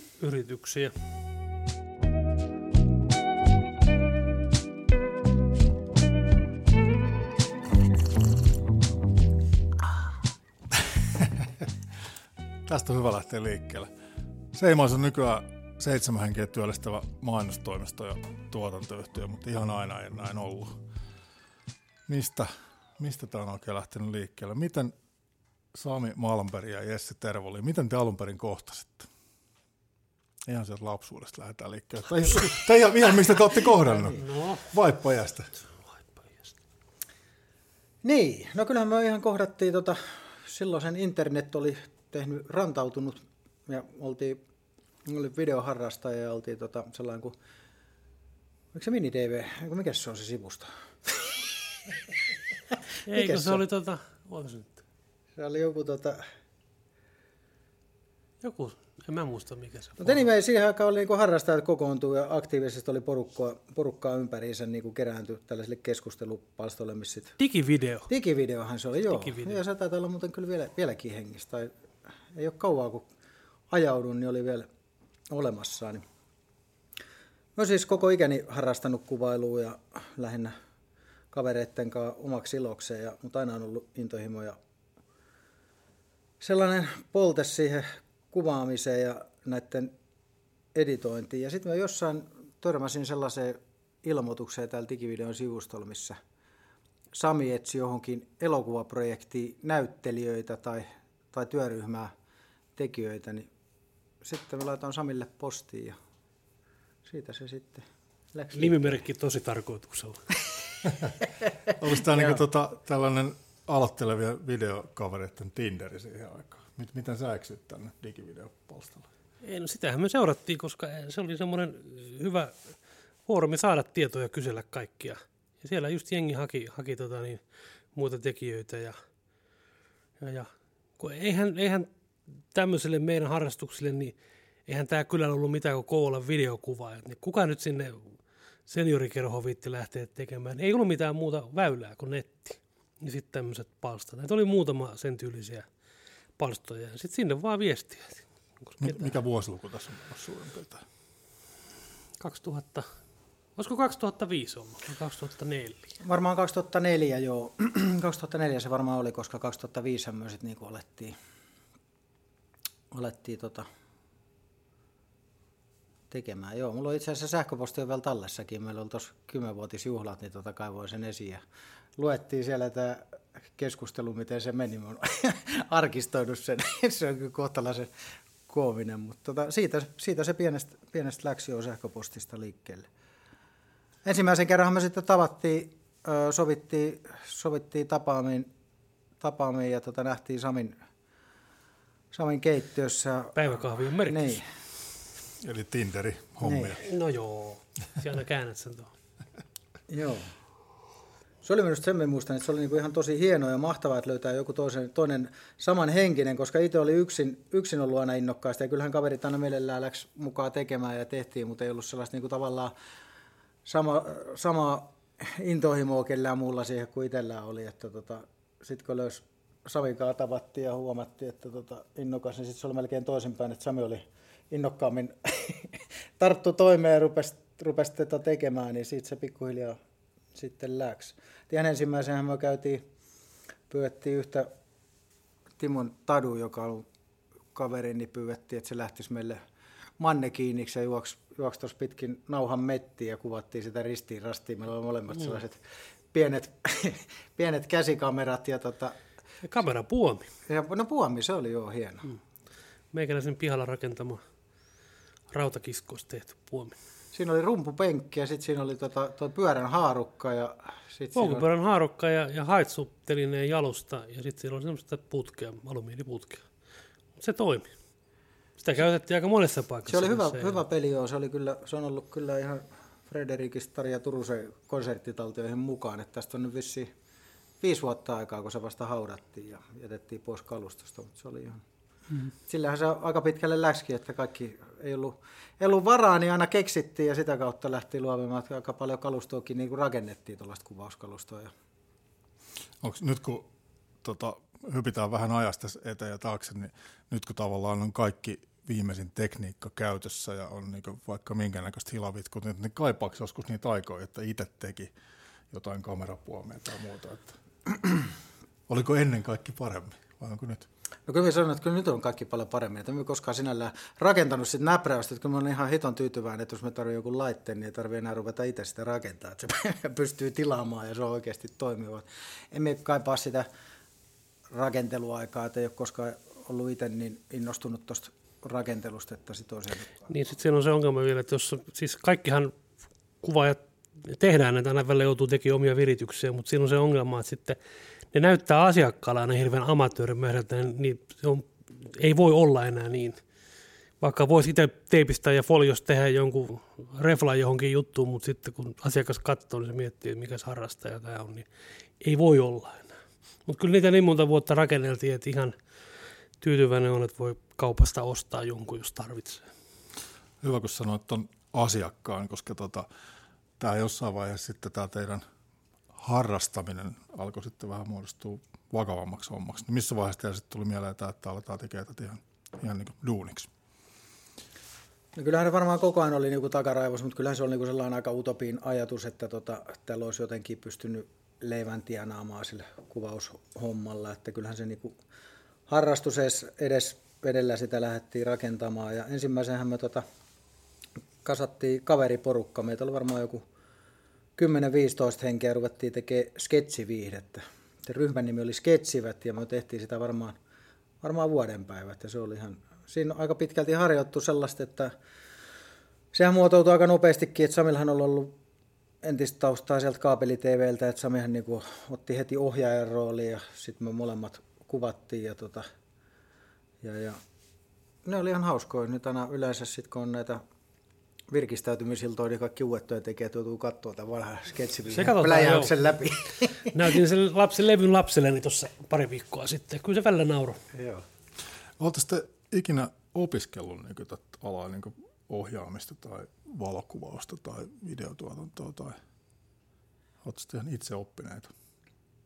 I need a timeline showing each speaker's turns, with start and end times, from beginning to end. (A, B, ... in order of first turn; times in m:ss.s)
0:00.2-0:00.9 A
0:10.8-0:11.7 B
0:12.6-0:13.9 B
0:14.5-0:20.8 B
0:22.1-0:24.9 B
0:25.7-0:29.1 B
0:30.4-0:35.5 B
0:33.7-0:34.7 A
0:36.1-0:36.5 A
0:38.0-0:44.4 C
0:45.0-0:47.3 C
0:48.7-0:51.4 C
0:53.1-0:54.8 A
0:53.1-0:53.6 C
0:55.4-0:56.2 C
0:58.4-1:00.2 A
1:00.0-1:07.4 C
1:07.4-1:08.1 A
1:08.1-1:11.7 C
1:09.1-1:09.6 A
1:12.3-1:13.1 C
1:13.7-1:14.7 C
1:15.3-1:16.0 C
1:17.6-1:20.5 C
1:21.3-1:24.6 C
1:26.4-1:29.9 C
1:30.7-1:36.2 C
1:37.1-1:42.1 C
1:42.8-1:43.5 C
1:44.2-1:46.0 C
1:47.0-1:49.0 C
1:48.5-1:50.2 A
1:51.7-1:59.1 B
1:52.1-1:52.4 C
1:59.4-2:02.6 A
2:03.3-2:07.4 A
2:07.9-2:09.0 A
2:10.2-2:11.9 A
2:12.5-2:14.1 A
2:14.6-2:25.7 A
2:26.4-2:29.1 A
2:28.8-2:30.8 B
2:32.2-2:32.9 A
2:33.6-2:35.9 A
2:36.0-2:41.2 C
2:42.9-2:43.6 C
2:46.1-2:51.4 C
2:52.0-2:53.0 C
2:53.6-2:57.9 C
2:58.5-3:02.9 C
3:04.0-3:08.5 C
3:09.2-3:10.8 C
3:12.1-3:13.4 C
3:13.4-3:14.4 A
3:14.0-3:14.4 C
3:15.4-3:16.8 B
3:16.4-3:16.8 C
3:16.8-3:18.9 A
3:19.9-3:20.3 C
3:21.4-3:32.7 C
3:33.6-3:49.8 C
3:50.3-3:52.8 C
3:53.7-3:54.5 C
3:55.6-3:56.8 C
3:57.5-3:59.4 C
4:00.0-4:05.6 C
4:06.1-4:09.0 C
4:09.4-4:10.3 A
4:10.5-4:12.2 C
4:12.9-4:14.2 A
4:15.3-4:16.8 A
4:17.1-4:21.4 C
4:21.2-4:26.4 A
4:27.2-4:27.7 A
4:28.6-4:30.6 A
4:29.9-4:36.9 C
4:37.6-4:41.6 C
4:42.5-4:51.5 C
4:52.8-4:53.5 B
4:54.0-5:04.9 B
5:05.5-5:07.4 B
5:08.7-5:10.7 B
5:11.1-5:23.5 C
5:24.5-5:30.1 C
5:30.1-5:32.5 A
5:33.2-5:37.6 A
5:38.1-5:43.2 A
5:44.0-5:51.5 A
5:52.0-5:55.6 A
5:56.4-5:59.4 A
6:00.4-6:02.9 B
6:03.6-6:05.2 B
6:05.9-6:13.5 B
6:15.2-6:25.0 C
6:25.7-6:30.0 C
6:31.2-6:33.4 C
6:34.4-6:40.4 C
6:41.0-6:44.9 C
6:46.1-6:48.3 C
6:49.0-6:55.6 C
6:56.8-6:57.2 C
6:58.0-7:00.4 C
7:01.3-7:07.0 C
7:04.9-7:05.7 A
7:06.7-7:10.6 A
7:10.7-7:11.0 C
7:11.8-7:19.0 B
7:20.2-7:21.5 B